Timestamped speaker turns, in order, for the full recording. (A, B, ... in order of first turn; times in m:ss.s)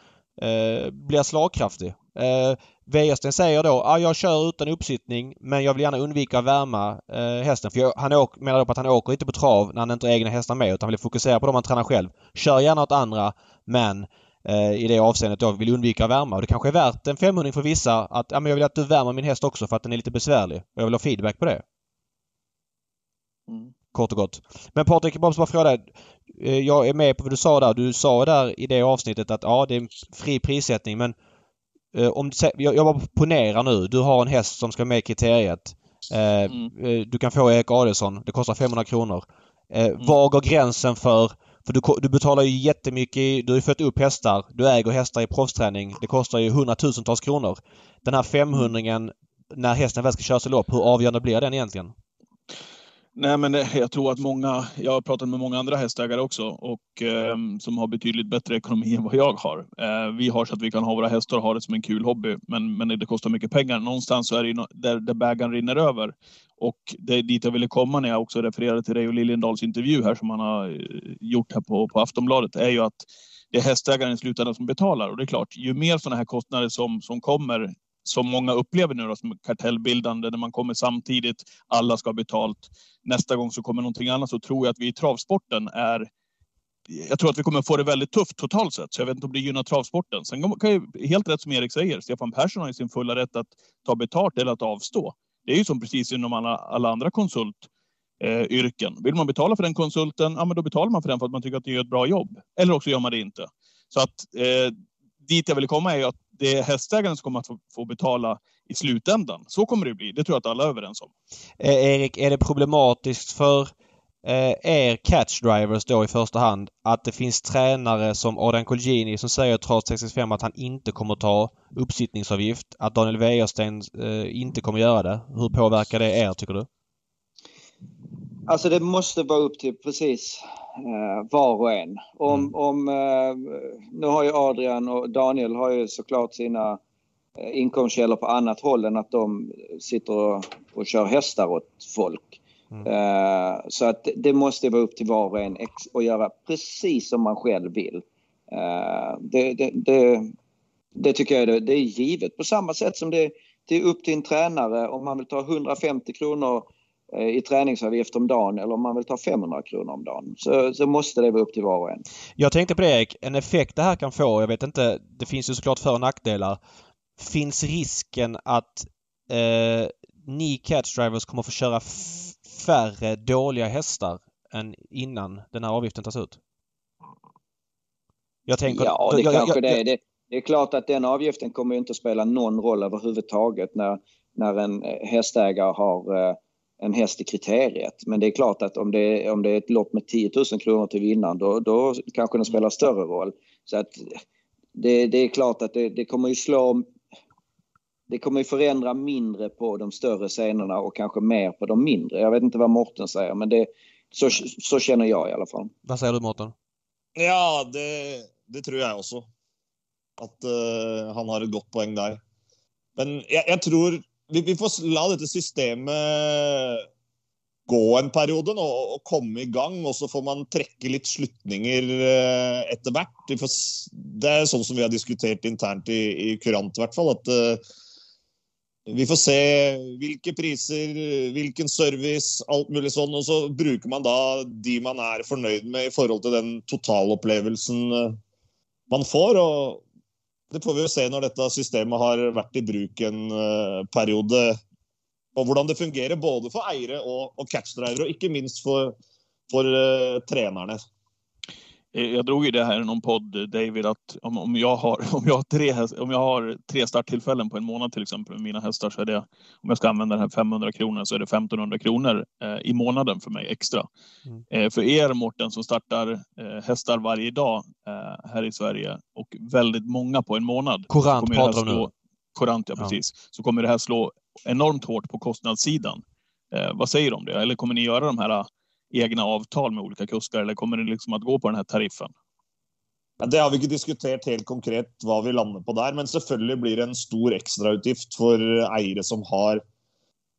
0:00.4-0:21.6 A
0:23.9-0:31.2 A
0:31.9-0:51.9 A
0:53.2-1:26.1 B
1:26.9-1:37.7 B
1:38.2-1:51.1 B
1:51.6-1:53.7 A
1:54.2-2:06.7 A
2:08.5-2:16.8 C
2:17.4-2:30.3 C
2:31.0-2:42.0 C
2:42.4-2:46.6 A
2:47.2-2:56.4 A
2:58.5-2:59.8 A
2:58.7-3:14.2 C
3:14.8-3:16.9 C
3:18.1-3:25.7 C
3:25.9-3:26.5 A
3:27.2-3:29.3 D
3:30.2-3:32.2 D
3:33.0-3:36.9 D
3:37.7-3:47.6 D
3:48.9-3:58.2 D
3:58.9-3:59.8 D
4:00.5-4:04.6 D
4:05.4-4:09.0 D
4:09.5-4:10.8 D
4:11.9-4:23.9 B
4:24.5-4:42.1 B
4:30.9-4:31.9 A
4:43.2-4:49.6 D